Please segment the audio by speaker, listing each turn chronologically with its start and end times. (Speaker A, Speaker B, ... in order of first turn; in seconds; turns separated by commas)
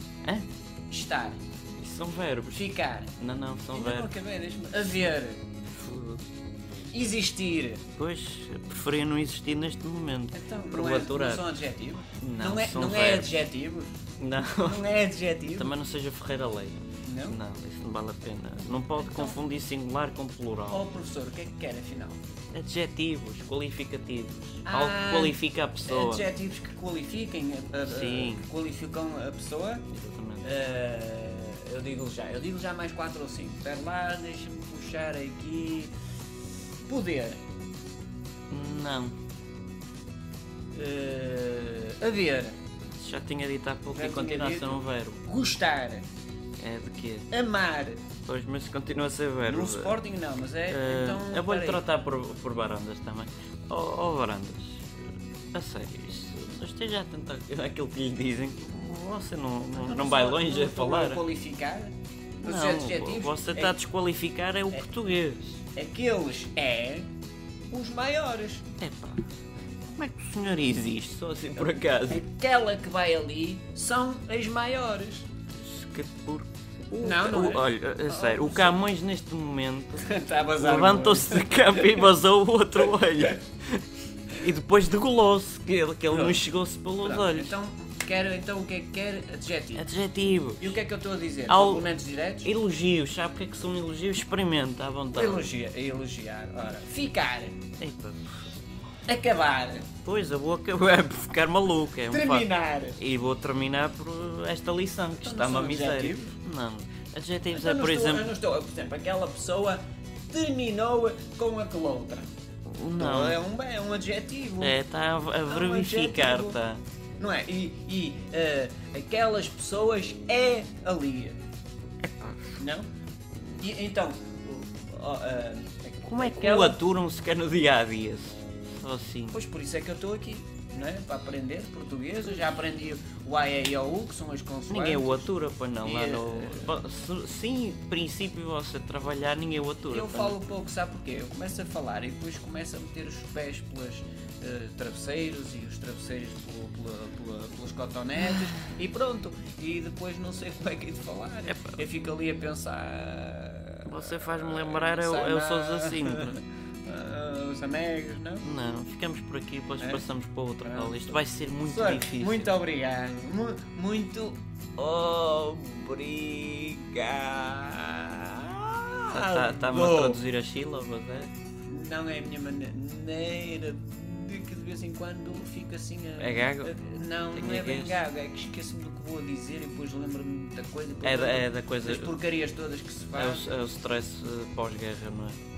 Speaker A: 0.9-1.4, Speaker B: 1.8-4.1, Speaker A: 2.5-3.1, Speaker A: 3.7-5.4, Speaker B: 5.7-6.2, Speaker A: 6.9-7.8, Speaker B: 8.0-11.5, Speaker A: 10.3-14.0, Speaker B: 12.2-13.4, Speaker B: 14.2-14.8, Speaker A: 14.6-15.7, Speaker B: 15.6-20.8, Speaker A: 17.1-17.4, Speaker A: 19.0-19.3, Speaker A: 20.7-22.2, Speaker B: 22.5-26.3, Speaker A: 24.6-29.9, Speaker B: 27.9-28.4, Speaker B: 29.9-30.5, Speaker A: 30.4-35.9, Speaker A: 36.8-37.4, Speaker B: 38.5-39.2, Speaker A: 40.7-42.6, Speaker B: 43.0-45.2, Speaker A: 43.9-46.0, Speaker B: 46.6-47.3, Speaker A: 47.3-48.1, Speaker B: 48.2-50.0, Speaker A: 49.4-51.8, Speaker B: 50.7-61.2, Speaker A: 59.7-63.8, Speaker B: 62.4-65.6, Speaker A: 65.7-67.1, Speaker A: 67.7-68.7, Speaker B: 68.8-69.2, Speaker B: 69.8-72.2, Speaker A: 72.1-75.3, Speaker B: 75.5-83.8, Speaker A: 77.0-78.9, Speaker A: 80.0-82.1, Speaker B: 84.4-87.5, Speaker A: 86.1-86.4, Speaker A: 87.0-89.9, Speaker B: 89.7-90.8, Speaker A: 90.6-92.5, Speaker B: 91.5-91.9, Speaker B: 92.4-95.5, Speaker A: 95.1-97.6, Speaker B: 97.8-98.4, Speaker A: 99.1-99.9, Speaker B: 100.0-108.3, Speaker A: 102.1-103.0, Speaker A: 105.2-106.3, Speaker A: 107.5-112.3, Speaker B: 112.7-113.4, Speaker A: 113.0-114.8, Speaker B: 114.6-116.8, Speaker A: 115.5-116.6, Speaker A: 117.2-121.4, Speaker A: 122.5-122.9, Speaker A: 123.6-126.8, Speaker B: 126.0-129.4, Speaker A: 129.3-136.8, Speaker B: 134.7-140.4, Speaker A: 139.9-158.5, Speaker B: 151.5-151.8, Speaker B: 153.8-156.4, Speaker B: 158.4-162.5, Speaker A: 160.6-170.2, Speaker B: 169.1-171.3, Speaker A: 171.7-183.5, Speaker B: 176.2-176.8, Speaker B: 177.3-178.0, Speaker B: 181.0-182.1, Speaker B: 183.1-185.4